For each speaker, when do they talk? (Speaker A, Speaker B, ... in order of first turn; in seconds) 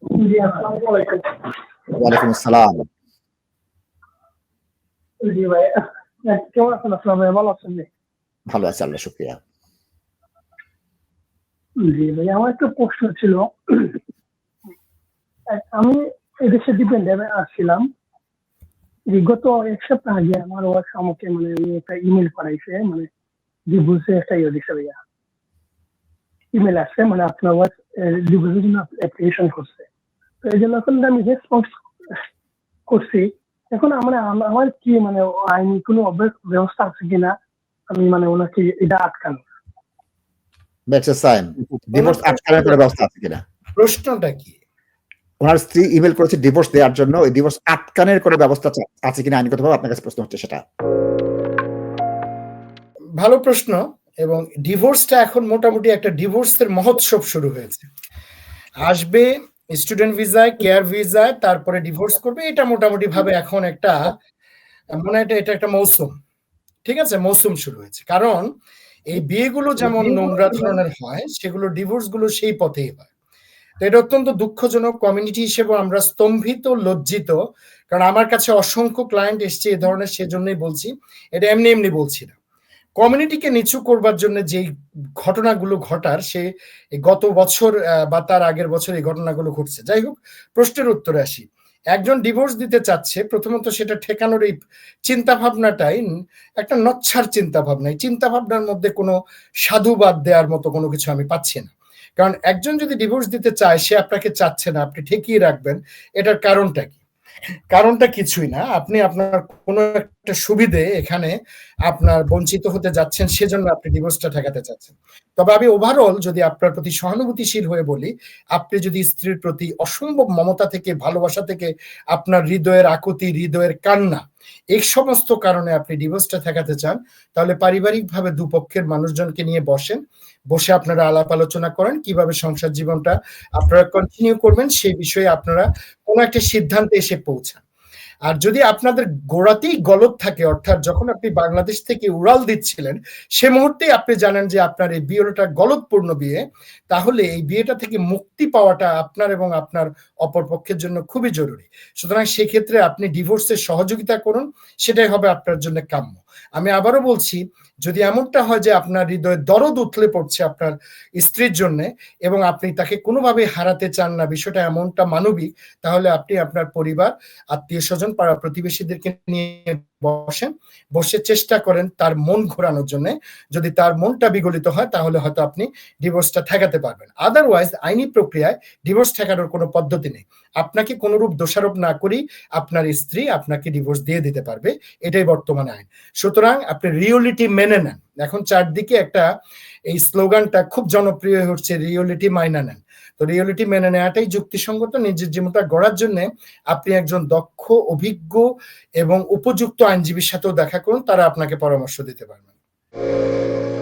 Speaker A: 0.1-1.4, 5.2-7.9, 11.8-14.0, 15.5-17.9, 19.1-23.1, 23.7-25.0, 26.5-29.9, 30.4-32.3, 32.9-37.3, 37.9-39.4
Speaker B: 1.9-2.9, 8.5-9.4, 40.9-43.4, 45.4-50.6
Speaker C: 41.9-42.8, 43.8-44.5, 53.2-57.9, 58.8-64.2, 64.9-66.1, 66.8-68.5, 69.1-73.0, 73.8-77.3, 77.9-82.3, 83.0-84.7, 85.2-86.4, 87.0-94.5, 95.1-96.1, 96.6-99.1, 99.7-107.0, 107.7-111.3, 111.9-124.2, 124.7-130.0, 130.5-137.6, 138.3-146.4, 146.9-189.2, 189.9-198.4, 199.0-202.4